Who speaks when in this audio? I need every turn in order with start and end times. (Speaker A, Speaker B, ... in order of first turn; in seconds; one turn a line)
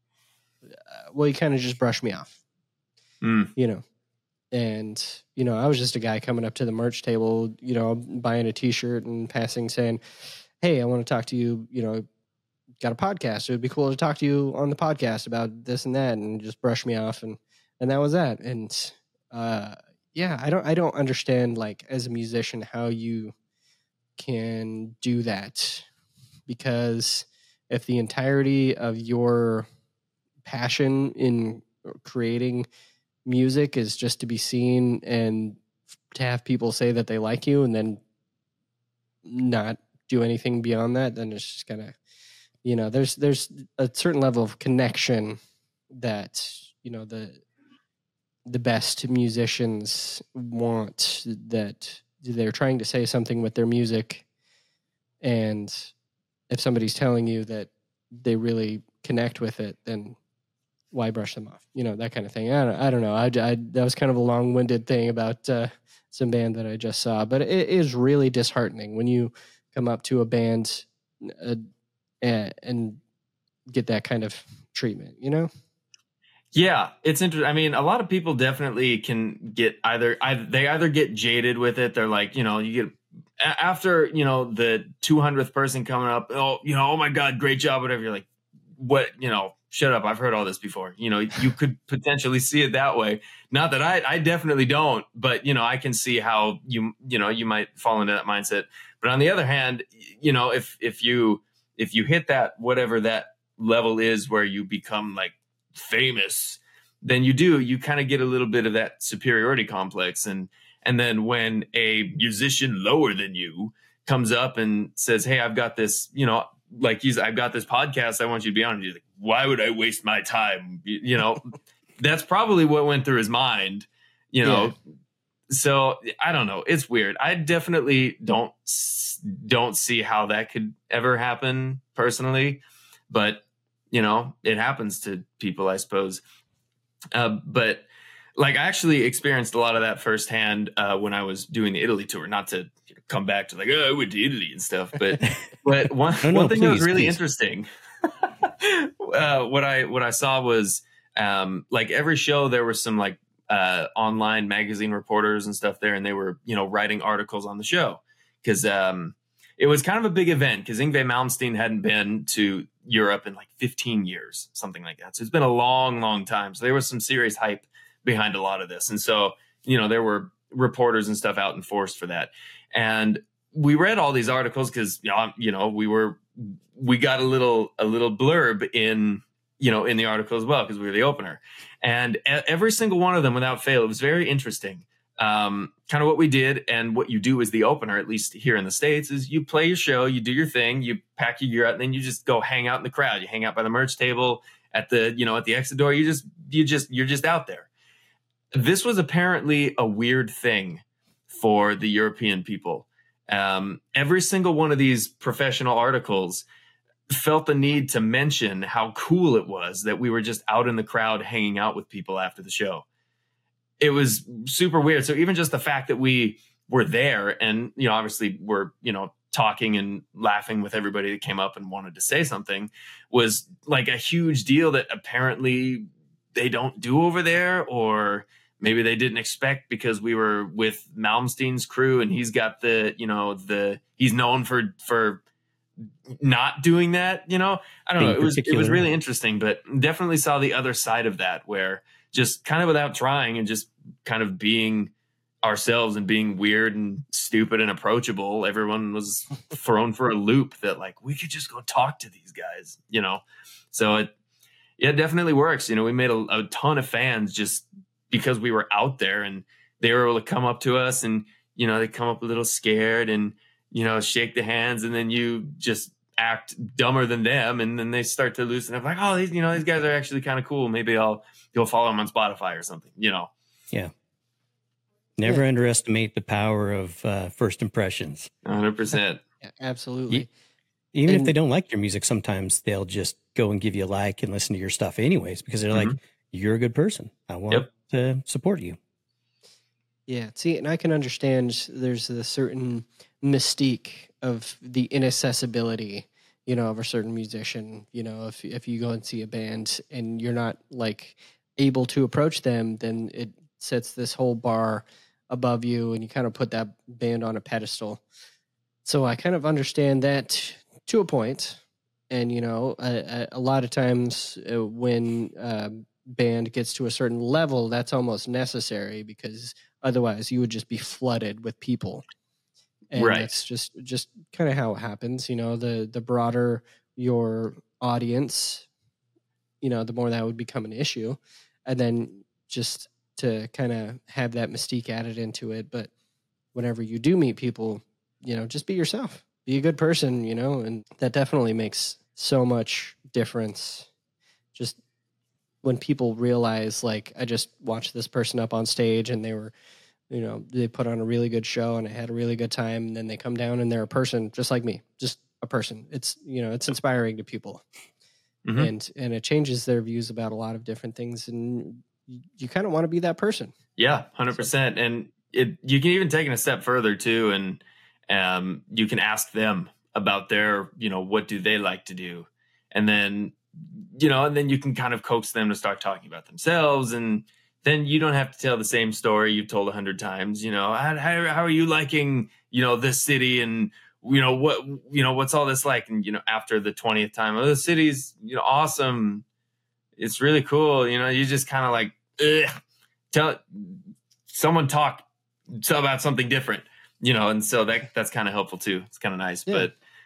Speaker A: 0.7-2.4
Speaker B: 3.2-3.5
Speaker A: 3.6-3.8
Speaker A: 4.5-10.0
Speaker A: 10.6-12.1
Speaker A: 12.8-23.3
Speaker A: 24.2-25.9
Speaker A: 26.5-29.7
Speaker A: 30.4-32.7
Speaker A: 33.2-35.6
Speaker A: 36.1-38.0
Speaker A: 39.2-42.0
Speaker A: 42.6-45.4
Speaker A: 45.9-47.4
Speaker A: 48.5-54.2
Speaker A: 55.2-55.9
Speaker A: 56.5-60.2
Speaker A: 60.9-71.7
Speaker A: 72.2-73.0
Speaker A: 73.7-75.5
Speaker B: 76.5-88.3
Speaker B: 88.8-121.5
Speaker B: 122.0-124.8
Speaker A: 124.4-124.7
Speaker B: 125.5-136.2
Speaker B: 137.1-147.7
Speaker C: 146.2-147.2
Speaker B: 148.4-197.7
Speaker B: 198.5-206.4
Speaker B: 207.1-212.8
Speaker B: 213.8-235.2
Speaker B: 236.2-244.9
Speaker C: 238.0-238.8
Speaker B: 245.4-254.1
Speaker B: 254.8-273.3
Speaker C: 275.2-278.3
Speaker B: 278.4-279.2
Speaker A: 279.4-280.3
Speaker C: 280.9-288.8
Speaker A: 290.1-308.0
Speaker A: 308.9-322.0
Speaker A: 322.9-328.7
Speaker B: 322.9-323.3
Speaker A: 329.6-335.9
Speaker A: 336.5-343.9
Speaker A: 345.6-349.5
Speaker A: 350.1-357.6
Speaker B: 358.4-358.7
Speaker A: 358.6-363.5
Speaker B: 363.8-373.4
Speaker B: 374.0-389.2
Speaker B: 390.0-392.5
Speaker B: 393.1-399.7